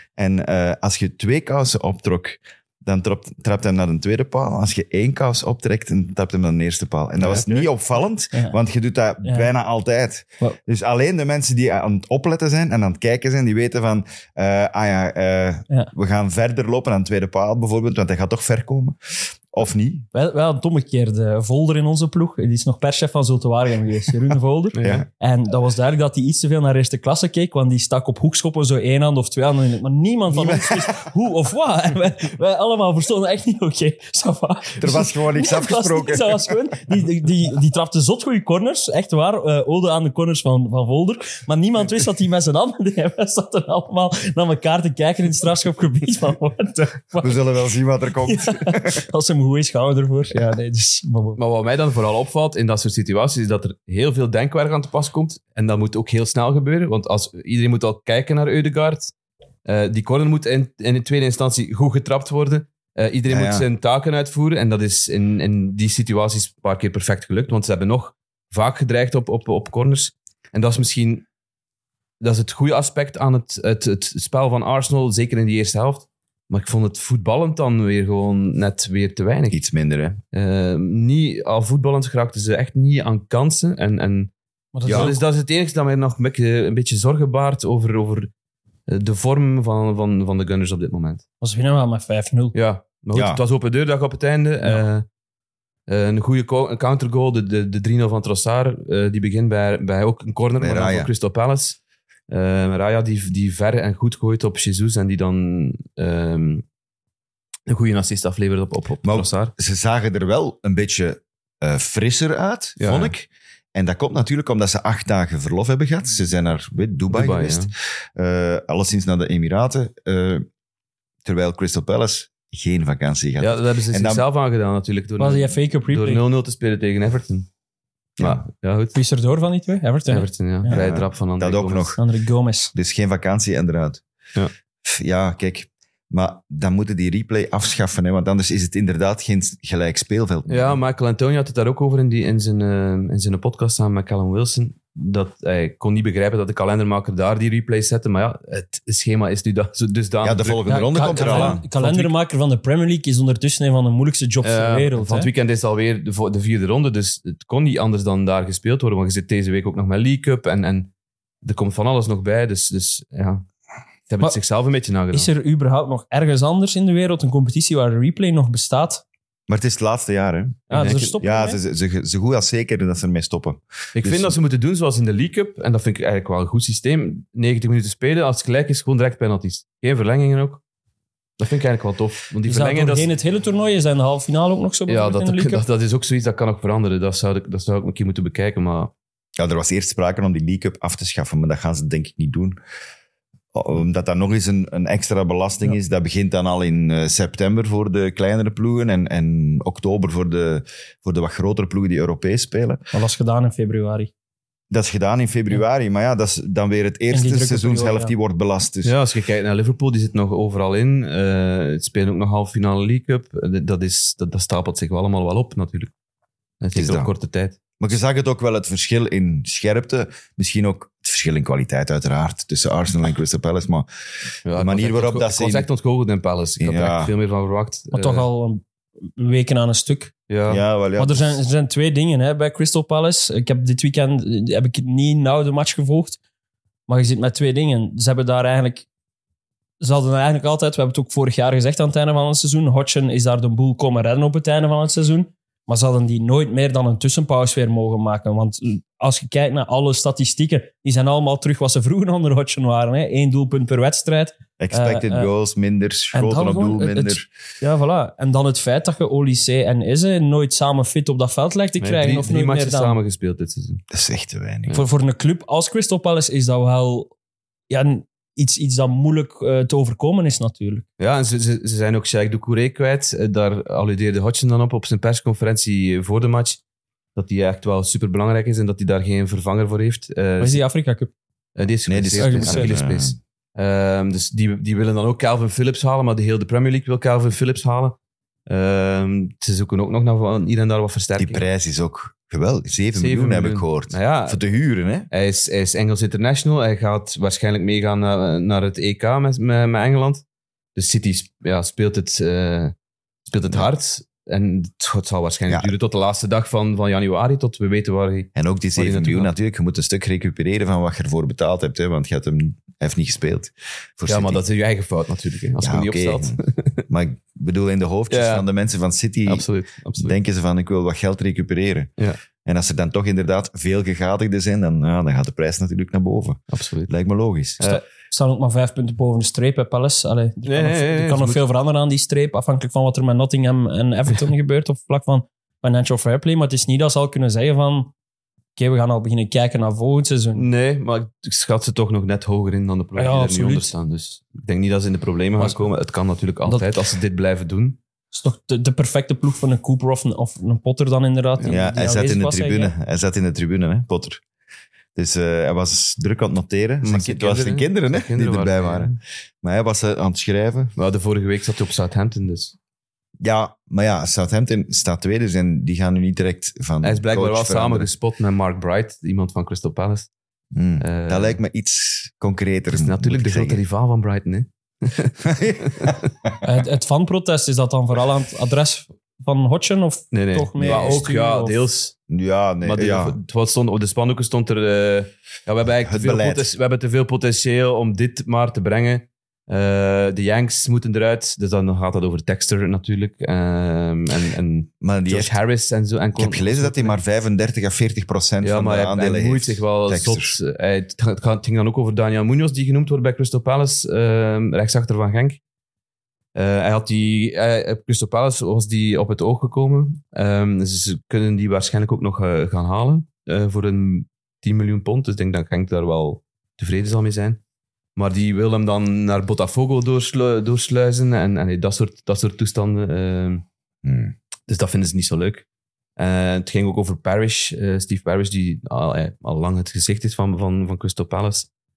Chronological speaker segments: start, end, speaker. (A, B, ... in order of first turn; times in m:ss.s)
0:00.2-0:20.1 A
0:07.2-0:07.5 B
0:09.2-0:09.5 C
0:20.1-0:47.4 C
0:24.8-0:25.0 B
0:30.3-0:31.0 A
0:34.8-0:36.6 A
0:47.2-0:49.0 A
0:48.2-0:51.4 C
0:51.4-0:59.1 B
0:59.6-1:11.2 B
1:03.3-1:03.6 A
1:12.2-1:19.6 B
1:19.5-1:20.2 A
1:20.3-1:24.3 B
1:24.7-1:25.2 C
1:24.8-1:25.1 A
1:24.8-1:28.3 B
1:28.9-1:31.2 B
1:31.4-1:32.6 C
1:32.5-1:35.0 B
1:33.1-1:33.4 A
1:35.9-1:46.6 B
1:40.6-1:41.1 A
1:47.6-1:49.5 B
1:49.0-2:00.5 A
1:52.8-1:53.1 B
1:57.1-1:57.7 B
2:01.2-2:04.2 A
2:03.4-2:07.5 B
2:05.2-2:06.2 C
2:08.2-2:09.0 B
2:08.2-2:08.4 A
2:08.9-2:10.8 C
2:10.1-2:12.0 B
2:10.7-2:12.0 A
2:12.0-2:12.7 C
2:12.7-2:14.0 A
2:14.8-2:20.8 A
2:20.5-2:32.1 B
2:30.2-2:31.6 A
2:30.7-2:35.3 C
2:34.4-2:40.9 B
2:41.4-2:43.5 B
2:44.1-2:45.3 B
2:45.1-2:49.0 C
2:49.5-2:54.4 A
2:50.7-2:51.6 C
2:50.7-2:51.1 B
2:53.9-3:00.6 B
3:01.4-3:03.1 B
3:02.4-3:05.6 C
3:04.9-3:08.9 B
3:09.4-3:12.6 A
3:13.5-3:22.8 A
3:22.9-3:24.1 C
3:24.7-3:28.9 A
3:27.1-3:28.1 C
3:28.8-3:35.9 B
3:36.6-3:37.6 B
3:36.8-3:37.1 A
3:37.8-3:43.9 A
3:44.5-3:48.3 B
3:44.5-3:45.7 A
3:46.6-3:47.1 A
3:47.9-3:50.1 C
3:50.3-3:50.6 B
3:50.5-3:51.4 A
3:51.0-3:56.2 C
3:56.9-3:58.9 C
3:59.8-4:15.3 C
4:14.6-4:17.2 A
4:16.1-4:23.0 C
4:21.8-4:23.8 B
4:23.9-4:24.8 A
4:24.7-4:27.1 C
4:27.7-4:30.8 C
4:31.0-4:36.6 B
4:37.1-4:40.6 B
4:40.4-4:41.1 C
4:41.6-4:48.0 B
4:41.9-4:43.2 A
4:42.2-4:42.8 C
4:48.5-4:51.5 B
4:51.2-4:55.1 A
4:53.0-4:54.4 B
4:55.1-5:00.2 B
5:00.8-5:02.7 B
5:03.3-5:09.3 B
5:08.4-5:14.4 A
5:14.1-5:16.8 B
5:15.6-5:19.5 A
5:18.1-5:18.4 B
5:19.3-5:20.2 B
5:20.0-5:21.9 A
5:22.4-5:27.6 A
5:26.5-5:26.9 B
5:27.6-5:37.9 C
5:30.5-5:31.4 B
5:38.6-5:40.5 C
5:40.4-5:47.8 B
5:43.0-5:43.7 C
5:45.4-5:45.7 C
5:46.5-5:46.8 C
5:48.1-5:52.7 C
5:51.5-5:54.2 A
5:55.0-6:00.7 A
5:56.8-5:59.0 B
6:00.8-6:02.5 B
6:03.2-6:07.9 A
6:06.8-6:10.1 B
6:10.5-6:13.6 A
6:10.8-6:11.4 B
6:12.7-6:16.1 B
6:15.2-6:16.3 A
6:16.4-6:21.6 C
6:20.1-6:21.9 B
6:20.6-6:21.0 A
6:22.1-6:23.2 A
6:22.6-6:37.0 B
6:25.8-6:26.5 A
6:34.8-6:35.4 A
6:36.2-6:40.4 A
6:38.4-6:45.4 B
6:46.4-6:57.4 B
6:58.0-7:03.4 B
7:03.8-7:04.1 A
7:04.5-7:05.4 B
7:06.0-7:11.5 B